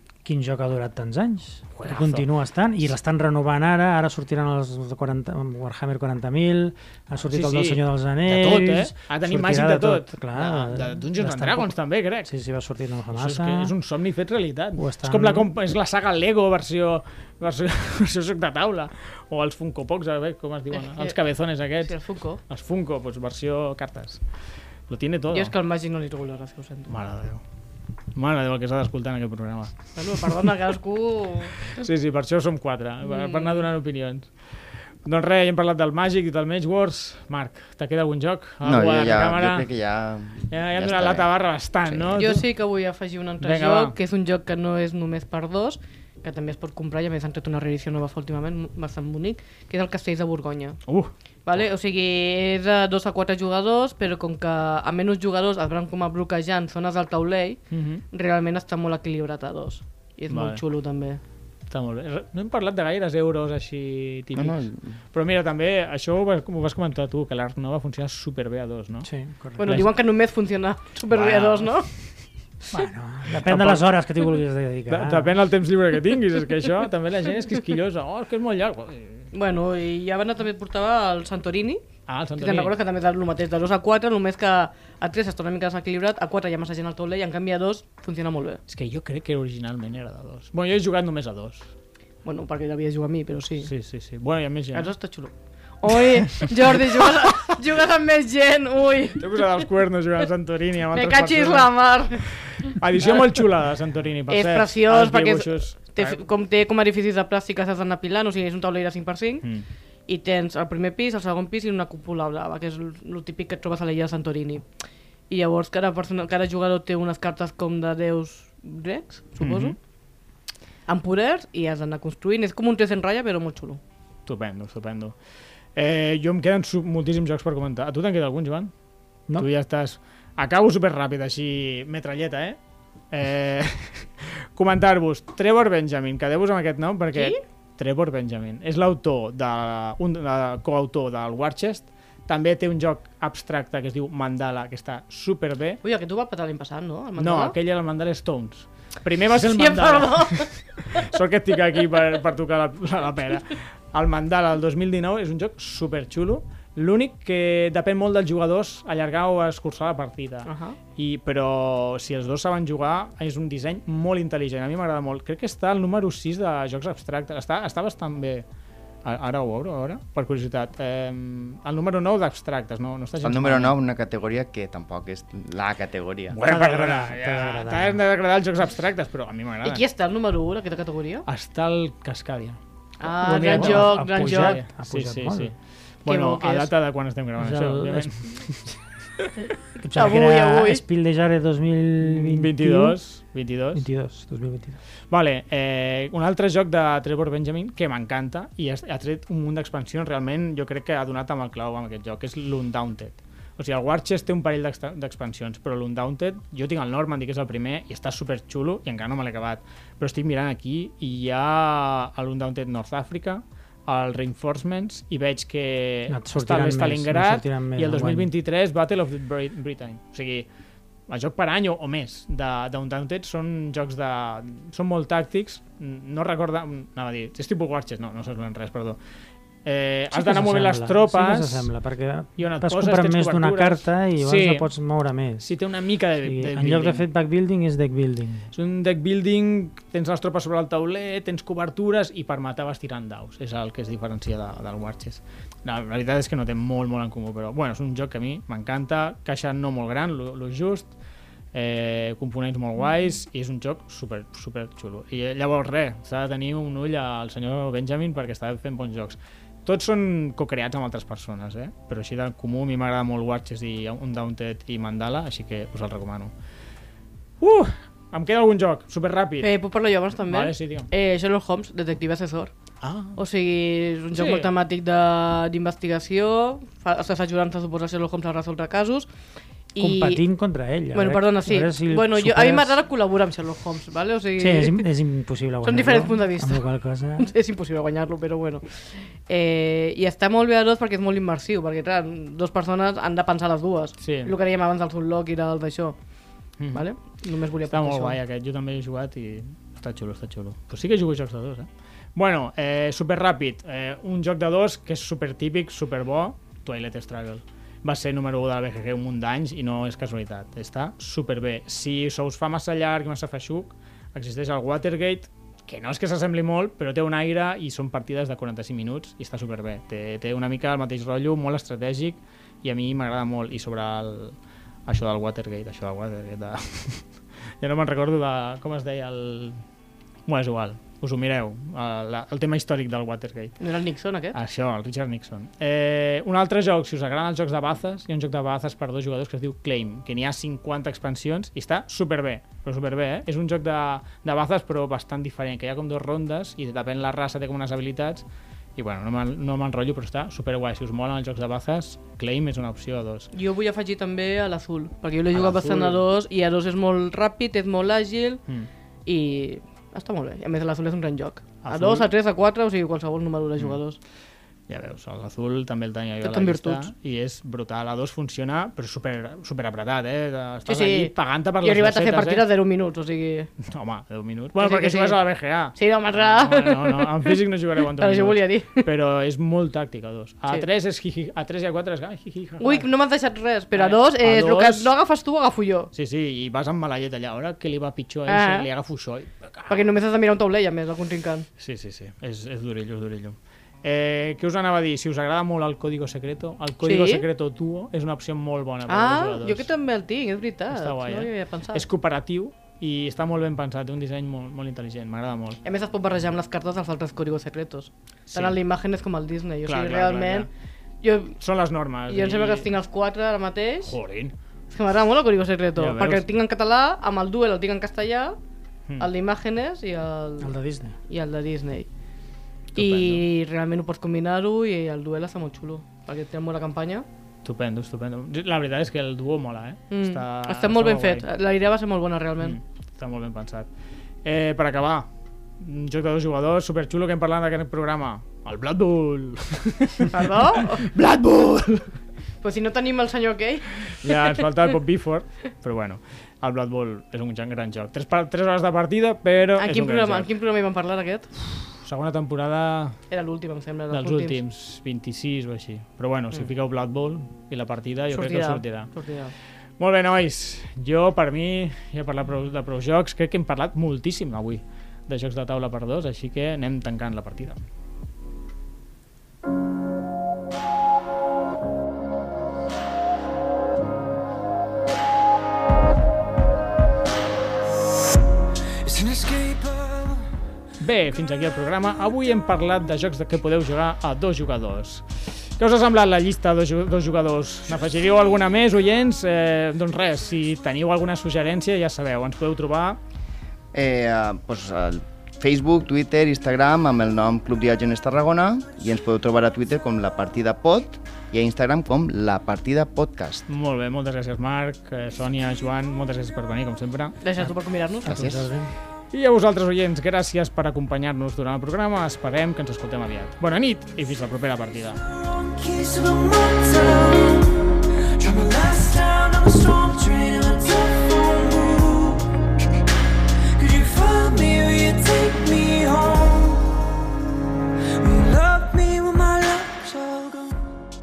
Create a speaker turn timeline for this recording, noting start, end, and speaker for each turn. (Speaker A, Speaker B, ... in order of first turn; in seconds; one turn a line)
Speaker A: 0.2-11.7
Speaker B: 1.7-2.3
Speaker B: 7.3-12.3
Speaker A: 12.2-13.7
Speaker B: 13.1-24.2
Speaker A: 14.8-15.5
Speaker C: 20.7-21.1
Speaker C: 21.8-22.4
Speaker B: 24.9-25.5
Speaker C: 25.3-26.9
Speaker B: 26.9-27.4
Speaker B: 28.1-30.5
Speaker C: 29.9-31.8
Speaker B: 31.7-34.3
Speaker C: 33.0-33.6
Speaker B: 35.0-39.7
Speaker D: 38.6-41.3
Speaker B: 40.5-42.4
Speaker C: 42.2-50.8
Speaker B: 43.4-43.9
Speaker B: 50.9-51.1
Speaker C: 51.4-57.6
Speaker B: 57.7-58.0
Speaker C: 58.1-61.2
Speaker B: 60.3-60.6
Speaker B: 61.7-69.9
Speaker D: 64.3-65.0
Speaker A: 69.0-69.8
Speaker C: 69.6-71.9
Speaker B: 71.1-71.9
Speaker A: 72.7-75.3
Speaker B: 72.7-73.9
Speaker B: 74.9-79.3
Speaker C: 79.3-81.8
Speaker B: 82.1-82.7
Speaker C: 82.4-88.6
Speaker B: 88.7-91.7
Speaker C: 92.2-93.7
Speaker B: 93.6-94.9
Speaker C: 94.7-99.6
Speaker B: 96.0-97.3
Speaker B: 99.2-106.2
Speaker C: 100.9-103.2
Speaker C: 104.3-109.5
Speaker C: 110.1-114.6
Speaker C: 115.3-119.8
Speaker B: 119.4-119.8
Speaker C: 120.9-123.8
Speaker B: 124.2-125.1
Speaker B: 125.7-128.7
Speaker B: 129.4-132.6
Speaker B: 133.1-145.8
Speaker C: 137.1-137.4
Speaker C: 145.8-147.6
Speaker B: 147.2-168.4
Speaker C: 149.4-151.0
Speaker C: 160.4-160.8
Speaker B: 169.0-173.8
Speaker D: 173.2-176.4
Speaker B: 176.3-179.8
Speaker A: 176.4-178.0
Speaker C: 179.6-181.2
Speaker B: 181.3-182.6
Speaker C: 183.0-184.6
Speaker A: 183.1-185.5
Speaker B: 183.2-189.3
Speaker C: 186.1-186.7
Speaker A: 187.4-188.3
Speaker C: 189.8-190.8
Speaker A: 189.8-193.0
Speaker B: 192.0-193.8
Speaker A: 193.7-194.8
Speaker B: 195.1-220.5
Speaker A: 216.1-218.3
Speaker B: 221.1-229.0
Speaker B: 229.6-231.7
Speaker A: 230.1-235.4
Speaker B: 232.4-234.7
Speaker B: 235.4-237.1
Speaker A: 236.2-238.4
Speaker B: 238.5-250.9
Speaker B: 251.5-266.3
Speaker B: 267.4-269.5
Speaker C: 269.4-272.5
Speaker B: 270.2-270.9
Speaker B: 272.8-273.2
Speaker C: 273.1-279.1
Speaker B: 274.1-274.5
Speaker C: 279.7-280.2
Speaker A: 279.8-282.8
Speaker C: 280.9-284.9
Speaker A: 284.4-287.3
Speaker C: 285.6-286.7
Speaker C: 287.2-288.6
Speaker C: 289.2-295.9
Speaker B: 294.0-294.3
Speaker C: 296.7-298.2
Speaker B: 297.7-324.3
Speaker B: 324.9-327.1
Speaker B: 327.6-329.6
Speaker B: 330.3-333.6
Speaker C: 333.6-334.4
Speaker B: 334.3-348.2
Speaker B: 348.8-353.3
Speaker C: 353.3-358.4
Speaker B: 355.3-356.0
Speaker C: 359.1-364.0
Speaker B: 361.6-362.1
Speaker B: 364.7-372.5
Speaker C: 366.2-366.9
Speaker C: 370.7-373.5
Speaker B: 373.6-382.9
Speaker C: 374.6-375.2
Speaker C: 375.8-378.9
Speaker C: 382.6-385.9
Speaker B: 383.7-384.9
Speaker B: 385.9-389.9
Speaker C: 388.3-388.7
Speaker C: 389.7-391.5
Speaker B: 391.6-399.7
Speaker C: 396.8-397.2
Speaker C: 398.9-401.8
Speaker B: 400.7-405.6
Speaker C: 405.6-410.5
Speaker B: 408.3-408.6
Speaker B: 409.6-410.5
Speaker C: 411.0-411.4
Speaker B: 411.4-412.7
Speaker C: 412.1-413.9
Speaker B: 413.8-414.3
Speaker C: 414.7-418.4
Speaker B: 415.8-416.2
Speaker C: 419.0-420.5
Speaker A: 420.4-420.9
Speaker C: 421.1-421.9
Speaker B: 422.7-423.2
Speaker C: 422.8-427.0
Speaker B: 427.4-431.2
Speaker C: 429.9-432.6
Speaker B: 432.4-433.7
Speaker B: 434.2-435.1
Speaker B: 435.6-441.9
Speaker C: 440.1-440.9
Speaker C: 442.4-444.4
Speaker B: 443.8-450.3
Speaker C: 449.6-451.3
Speaker B: 451.6-453.0
Speaker C: 453.1-454.4
Speaker B: 453.9-458.9
Speaker C: 458.1-459.3
Speaker B: 459.8-467.6
Speaker E: 478.8-480.3
Speaker B: 480.8-493.0
Speaker D: 493.7-503.4
Speaker B: 503.5-507.2
Speaker C: 507.2-508.3
Speaker A: 507.4-508.7
Speaker D: 508.0-508.4
Speaker B: 509.1-515.0
Speaker E: 514.9-522.5
Speaker E: 523.5-526.9
Speaker E: 528.0-530.8